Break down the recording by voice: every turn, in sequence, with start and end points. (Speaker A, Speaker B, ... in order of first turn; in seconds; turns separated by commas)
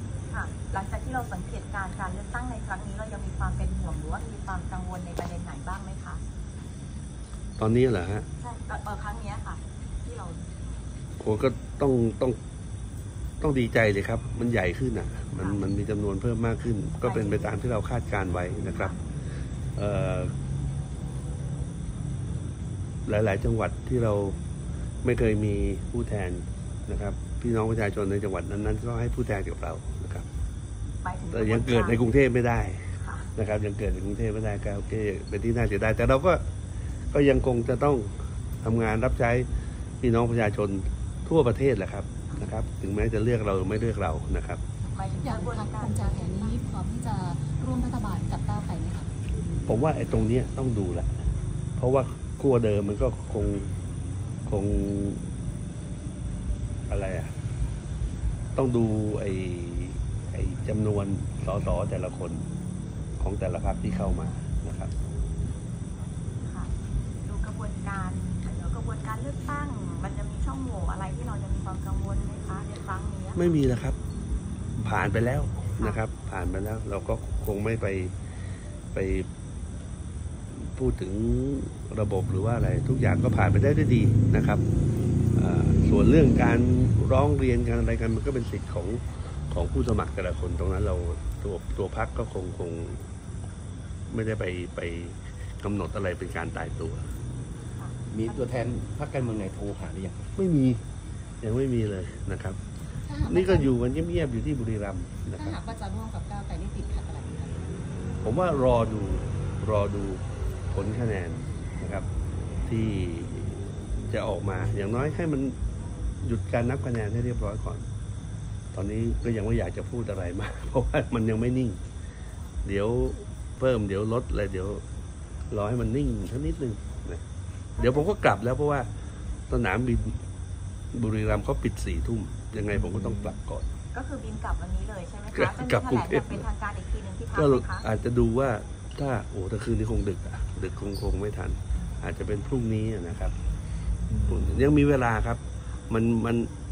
Speaker A: 0.3-6.2, Speaker B: 7.6-8.2, Speaker A: 8.4-10.4, Speaker B: 11.2-12.4, Speaker B: 13.4-18.9, Speaker A: 15.4-15.7, Speaker A: 17.0-17.6, Speaker A: 18.6-19.0, Speaker B: 19.8-20.3, Speaker B: 23.1-24.4, Speaker B: 25.0-30.2, Speaker A: 31.0-32.0, Speaker B: 31.3-36.4, Speaker A: 33.0-33.3, Speaker B: 37.1-39.5, Speaker B: 40.0-44.6, Speaker C: 44.9-49.1, Speaker A: 44.9-46.6, Speaker B: 49.7-51.1, Speaker B: 51.8-53.7, Speaker B: 54.5-55.3, Speaker B: 56.9-57.3, Speaker B: 58.5-62.5, Speaker B: 63.2-64.9, Speaker A: 66.4-66.7, Speaker A: 67.2-73.4, Speaker B: 73.3-74.0, Speaker B: 74.8-78.1, Speaker A: 75.8-76.0, Speaker B: 78.9-79.3, Speaker B: 80.5-84.6, Speaker B: 85.3-93.0, Speaker B: 94.1-97.1, Speaker A: 97.8-98.5, Speaker D: 98.1-100.3, Speaker B: 100.4-100.8, Speaker B: 101.4-102.6, Speaker C: 103.0-103.7, Speaker B: 103.3-105.6, Speaker C: 105.3-107.7, Speaker B: 108.2-112.1, Speaker B: 112.7-115.6, Speaker B: 116.2-117.8, Speaker B: 118.7-121.8, Speaker B: 122.6-124.8, Speaker B: 125.5-127.2, Speaker A: 127.8-128.1, Speaker B: 127.8-128.9, Speaker B: 129.5-130.2, Speaker B: 130.9-133.6, Speaker A: 133.9-137.8, Speaker B: 135.3-136.4, Speaker B: 137.3-143.3, Speaker B: 144.2-146.5